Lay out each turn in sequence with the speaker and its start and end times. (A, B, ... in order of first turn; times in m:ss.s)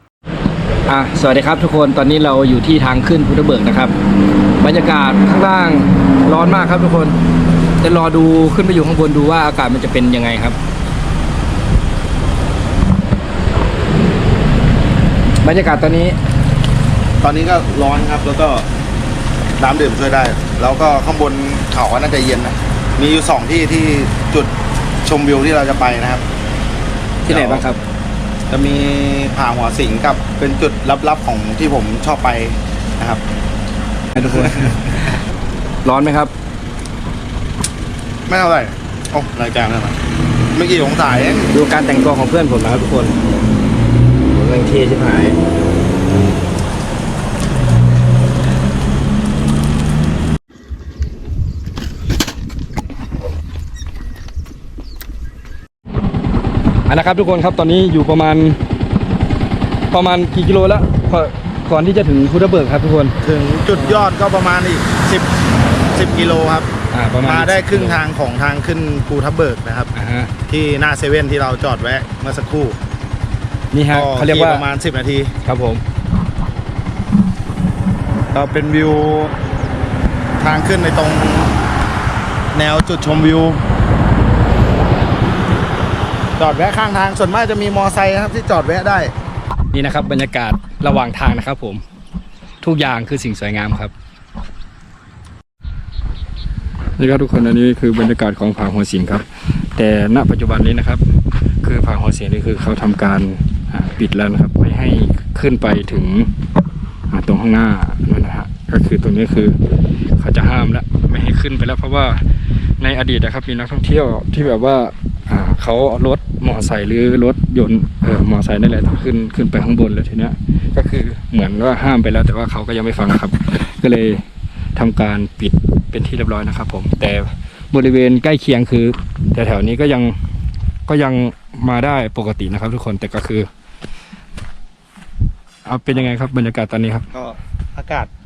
0:00.8-0:03.9 A
0:04.6-0:07.2 A
0:07.8-0:10.6 A
0:15.4-0:16.2 A
0:17.2-0:18.7 B
0:19.6-0:24.5 B
0:25.0-0:26.2 B
0:27.2-0:27.8 A
0:27.3-0:27.7 B
0:28.5-0:33.2 B
0:34.1-0:35.2 A
0:34.3-0:34.8 B
0:35.8-0:36.3 A
0:38.3-0:40.0 B
0:40.5-0:41.5 B
0:41.5-0:43.2 A
0:44.3-0:45.4 A
0:56.8-0:58.6 A
0:59.9-1:03.2 A
1:03.2-1:05.3 B
1:03.8-1:04.1 A
1:05.9-1:06.7 B
1:06.9-1:08.0 A
1:07.2-1:09.9 B
1:09.9-1:10.3 A
1:10.5-1:12.8 B
1:13.7-1:14.6 A
1:13.9-1:15.3 B
1:15.4-1:15.8 A
1:18.3-1:19.4 B
1:20.4-1:21.5 B
1:22.5-1:23.6 B
1:26.4-1:29.1 B
1:29.7-1:31.8 A
1:32.6-1:33.9 A
1:37.0-1:41.0 A
1:41.6-1:46.3 A
1:47.1-1:49.6 A
1:50.2-1:52.2 A
1:52.8-2:04.2 A
2:04.8-2:10.2 A
2:10.9-2:13.5 A
2:15.6-2:17.1 A
2:17.1-2:18.1 B